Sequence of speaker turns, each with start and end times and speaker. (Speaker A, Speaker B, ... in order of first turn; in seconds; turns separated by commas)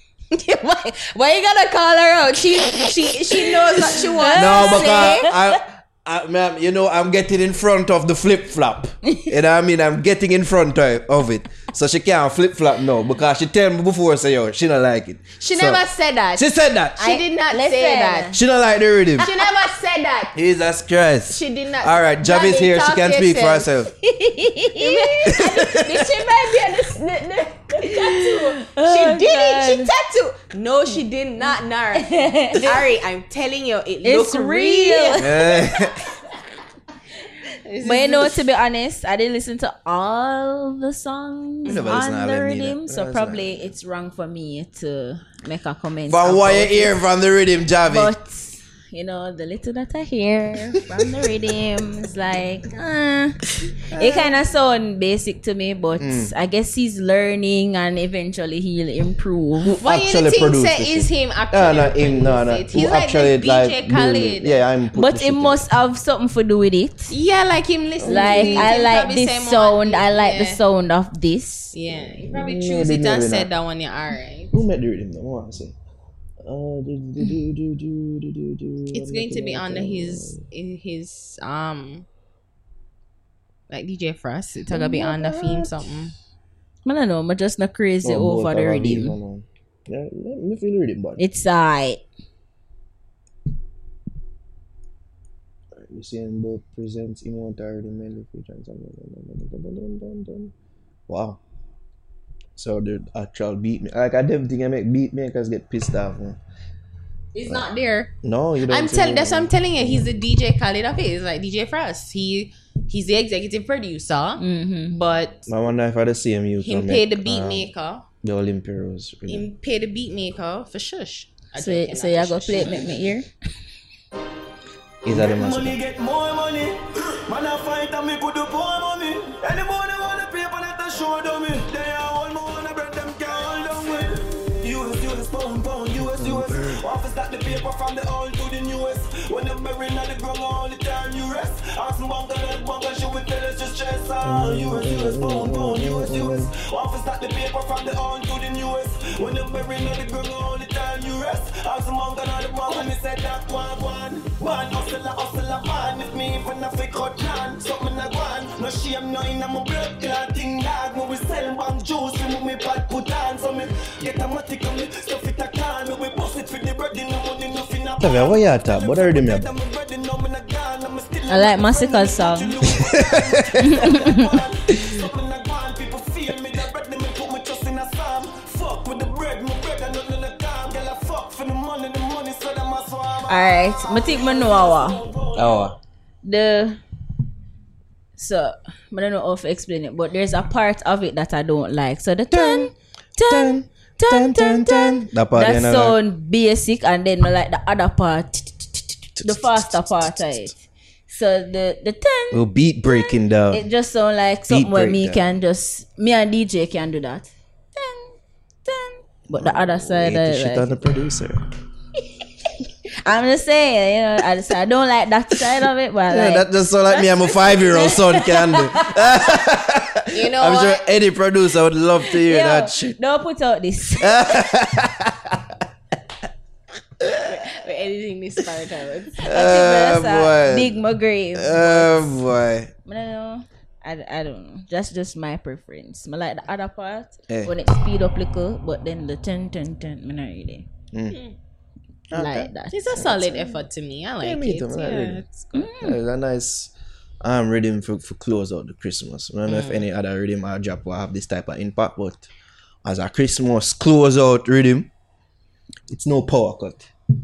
Speaker A: 0.3-5.3, Speaker B: 4.2-5.3, Speaker C: 4.3-15.8, Speaker A: 15.4-18.4, Speaker C: 16.4-17.2, Speaker B: 17.0-18.4, Speaker C: 18.3-19.3, Speaker A: 19.2-20.4, Speaker C: 20.4-23.9, Speaker A: 21.3-23.7, Speaker B: 24.0-25.4, Speaker A: 24.8-35.6, Speaker C: 25.3-26.1, Speaker B: 27.8-29.9, Speaker B: 32.0-32.8, Speaker B: 34.0-35.6, Speaker C: 35.2-36.1, Speaker A: 37.6-38.4, Speaker B: 37.8-47.0, Speaker C: 41.7-43.6, Speaker C: 46.1-48.1, Speaker B: 47.9-59.8, Speaker C: 53.9-54.4, Speaker C: 56.0-56.3, Speaker C: 59.6-65.7, Speaker A: 59.8-64.6, Speaker B: 65.0-67.1, Speaker A: 67.1-70.6, Speaker C: 68.0-68.7, Speaker B: 68.1-71.7, Speaker A: 71.7-74.5, Speaker C: 72.1-73.5, Speaker C: 74.5-75.8, Speaker C: 76.4-80.4, Speaker A: 78.9-82.1, Speaker A: 83.7-86.1, Speaker C: 84.7-85.9, Speaker B: 86.8-89.2, Speaker C: 88.0-91.2, Speaker B: 91.2-92.0, Speaker C: 95.8-100.5, Speaker C: 101.1-101.4, Speaker C: 102.6-106.4, Speaker A: 107.3-108.1, Speaker C: 108.2-110.1, Speaker A: 108.7-115.5, Speaker B: 114.4-114.9, Speaker C: 115.5-117.7, Speaker A: 116.6-118.1, Speaker C: 118.2-119.5, Speaker A: 119.3-122.9, Speaker B: 121.6-123.3, Speaker C: 125.0-125.8, Speaker D: 125.1-185.7, Speaker C: 136.0-136.8, Speaker C: 144.2-146.5, Speaker C: 168.0-169.5, Speaker B: 171.3-172.6, Speaker C: 172.6-174.0, Speaker B: 173.6-174.3, Speaker B: 183.3-185.0, Speaker C: 185.3-185.8, Speaker B: 186.2-186.8, Speaker B: 188.2-208.2, Speaker C: 192.3-196.0, Speaker C: 199.2-200.5, Speaker C: 202.3-203.7, Speaker C: 204.5-205.2, Speaker B: 208.7-210.8, Speaker C: 209.3-211.4, Speaker B: 213.0-219.3, Speaker C: 216.1-223.0, Speaker A: 220.1-220.8, Speaker B: 222.1-224.4, Speaker C: 224.0-225.6, Speaker C: 227.0-227.3, Speaker A: 227.2-229.2, Speaker B: 229.2-232.2, Speaker C: 229.2-230.8, Speaker C: 231.3-232.7, Speaker B: 232.9-240.7, Speaker C: 237.3-237.6, Speaker C: 240.9-241.2, Speaker C: 242.1-242.5, Speaker B: 242.1-243.6, Speaker A: 242.7-245.7, Speaker C: 244.2-245.2, Speaker B: 245.6-245.9, Speaker C: 245.8-252.2, Speaker A: 249.5-249.8, Speaker C: 252.8-254.9, Speaker C: 255.9-256.9